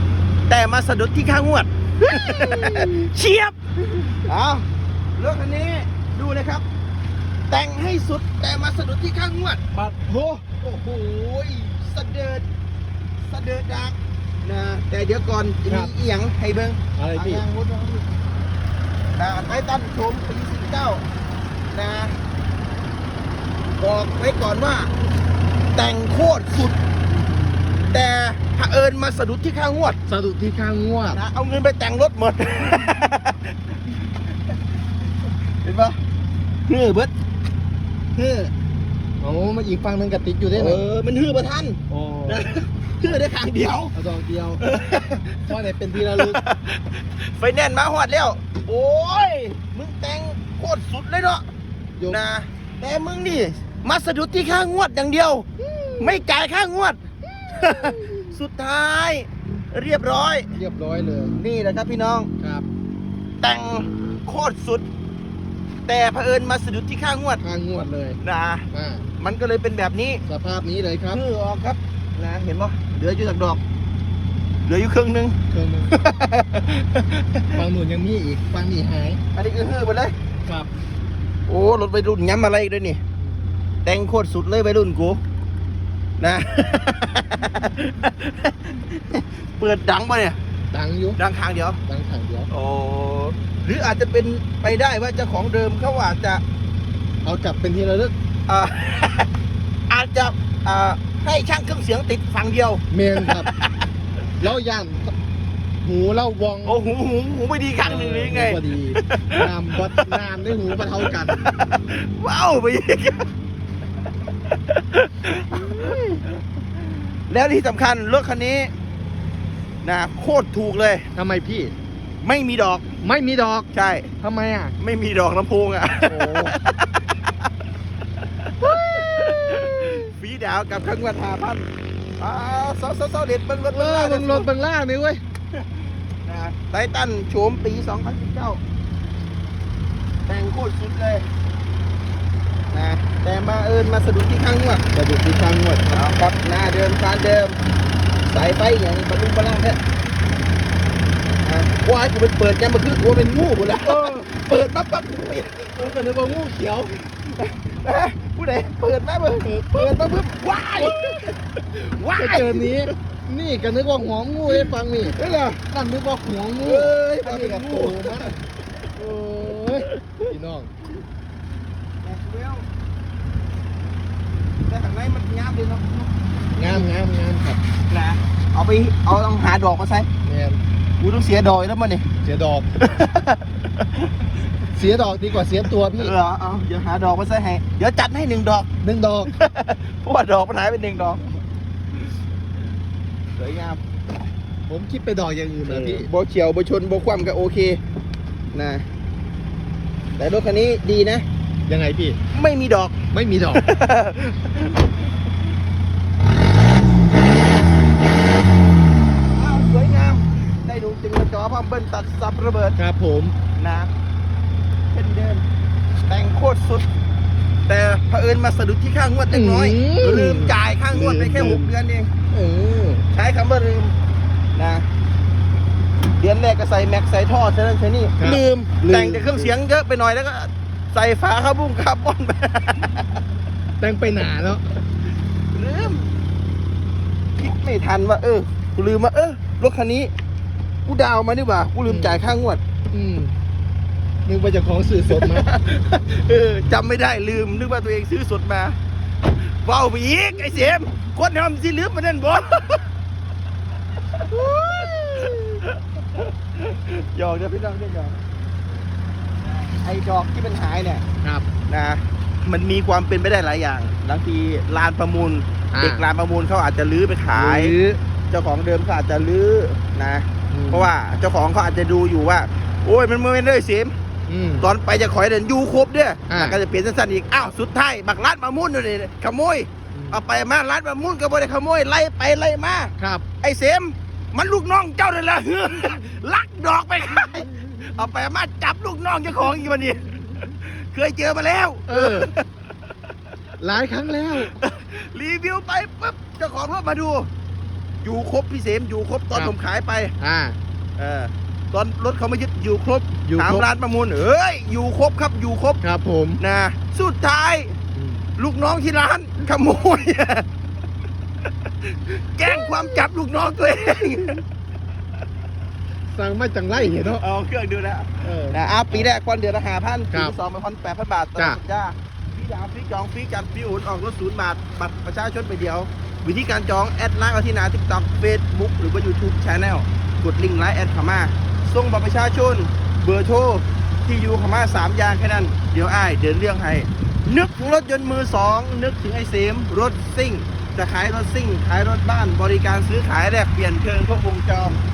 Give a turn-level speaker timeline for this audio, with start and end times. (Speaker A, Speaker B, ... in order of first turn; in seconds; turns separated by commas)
Speaker A: 0.5-3.5, Speaker B: 2.0-3.1, Speaker A: 4.2-6.7, Speaker A: 7.5-9.6, Speaker B: 9.7-10.4, Speaker A: 10.4-12.4, Speaker A: 13.2-18.1, Speaker B: 15.7-15.9, Speaker B: 17.0-17.4, Speaker A: 19.1-21.1, Speaker A: 21.7-22.2, Speaker A: 23.8-24.9, Speaker A: 25.7-26.8, Speaker B: 27.2-27.8, Speaker A: 27.9-30.0, Speaker B: 30.1-31.2, Speaker A: 31.1-33.5, Speaker A: 35.6-36.0, Speaker A: 36.7-37.1, Speaker A: 38.2-38.5, Speaker B: 39.2-40.8, Speaker A: 40.5-43.9, Speaker B: 41.9-42.4, Speaker B: 43.9-44.6, Speaker A: 44.6-45.4, Speaker B: 45.4-46.4, Speaker A: 46.1-51.5, Speaker A: 52.1-55.5, Speaker B: 55.6-56.2, Speaker A: 56.0-60.5, Speaker B: 57.3-58.2, Speaker B: 60.5-61.4, Speaker A: 61.3-62.3, Speaker B: 62.4-62.7, Speaker A: 63.4-64.8, Speaker A: 65.9-67.4, Speaker B: 67.4-68.2, Speaker A: 68.2-68.7, Speaker B: 68.7-69.1, Speaker A: 69.2-70.2, Speaker B: 70.3-71.2, Speaker A: 71.1-73.6, Speaker A: 74.7-75.4, Speaker B: 75.5-76.1, Speaker A: 75.9-76.8, Speaker B: 77.4-79.2, Speaker A: 79.3-80.2, Speaker A: 81.5-83.0, Speaker B: 83.2-83.5, Speaker A: 83.8-85.2, Speaker A: 86.2-90.4, Speaker B: 90.7-91.2, Speaker A: 91.2-91.8, Speaker B: 91.8-92.5, Speaker A: 92.5-96.4, Speaker B: 97.2-98.1, Speaker A: 98.5-99.3, Speaker A: 99.9-103.8, Speaker B: 102.9-103.5, Speaker B: 104.4-105.2, Speaker B: 105.8-106.8, Speaker A: 106.6-109.5, Speaker B: 107.8-111.4, Speaker A: 111.2-113.3, Speaker A: 114.5-116.0, Speaker B: 115.5-116.2, Speaker A: 117.3-118.7, Speaker A: 119.8-121.1, Speaker B: 121.2-121.7, Speaker A: 122.2-122.8, Speaker B: 123.0-123.7, Speaker A: 123.7-124.1, Speaker B: 124.2-124.8, Speaker A: 124.8-127.1, Speaker B: 126.0-126.5, Speaker B: 128.6-130.1, Speaker A: 128.7-131.7, Speaker A: 132.2-134.5, Speaker B: 133.7-135.2, Speaker A: 135.6-138.6, Speaker A: 140.3-141.3, Speaker A: 142.7-147.6, Speaker A: 148.2-149.8, Speaker A: 151.4-155.7, Speaker B: 153.8-154.2, Speaker B: 155.8-157.1, Speaker A: 157.4-162.9, Speaker B: 159.4-159.9, Speaker B: 160.8-161.0, Speaker B: 162.1-168.4, Speaker A: 164.5-165.6, Speaker A: 166.6-168.3, Speaker B: 169.0-170.7, Speaker A: 172.0-172.7, Speaker A: 174.7-176.2, Speaker B: 176.6-177.6, Speaker A: 177.9-180.1, Speaker B: 180.2-180.6, Speaker A: 181.0-182.1, Speaker B: 182.2-182.7, Speaker A: 182.8-183.8, Speaker B: 184.7-186.1, Speaker A: 185.9-188.7, Speaker B: 188.8-189.3, Speaker A: 189.2-191.2, Speaker A: 193.4-193.8, Speaker B: 194.7-196.1, Speaker A: 195.7-197.8, Speaker A: 198.5-198.9, Speaker A: 200.2-201.3, Speaker B: 201.7-202.2, Speaker A: 202.3-202.9, Speaker B: 203.1-203.7, Speaker A: 203.5-204.8, Speaker A: 209.3-212.8, Speaker B: 212.8-213.3, Speaker A: 213.6-213.9, Speaker A: 214.9-215.4, Speaker A: 216.1-216.9, Speaker A: 217.7-222.1, Speaker B: 219.3-221.7, Speaker B: 222.3-223.1, Speaker A: 223.1-223.9, Speaker A: 224.6-224.9, Speaker A: 226.1-233.0, Speaker B: 228.2-229.5, Speaker B: 233.8-234.7, Speaker A: 235.5-236.1, Speaker A: 237.4-240.1, Speaker A: 240.8-242.6, Speaker B: 241.9-242.2, Speaker B: 242.9-243.3, Speaker B: 244.3-245.5, Speaker A: 245.1-248.8, Speaker A: 249.4-252.8, Speaker A: 254.3-255.3, Speaker B: 254.3-255.6, Speaker A: 256.2-258.2, Speaker A: 259.4-261.0, Speaker B: 261.2-261.5, Speaker A: 261.7-267.8, Speaker B: 265.7-266.0, Speaker B: 267.3-268.0, Speaker A: 268.3-274.0, Speaker B: 270.5-270.9, Speaker B: 274.3-274.7, Speaker A: 274.6-292.4, Speaker B: 276.3-276.6, Speaker B: 279.9-280.2, Speaker B: 283.0-283.2, Speaker B: 291.9-292.3, Speaker B: 293.6-294.5, Speaker A: 294.4-297.3, Speaker A: 298.0-300.1, Speaker B: 300.2-300.6, Speaker A: 301.0-305.8, Speaker B: 303.2-303.6, Speaker B: 305.8-306.4, Speaker A: 306.4-307.8, Speaker B: 307.9-308.2, Speaker A: 308.4-310.5, Speaker A: 311.8-314.4, Speaker B: 312.6-313.0, Speaker B: 316.1-317.2, Speaker A: 317.2-344.8, Speaker B: 318.2-319.1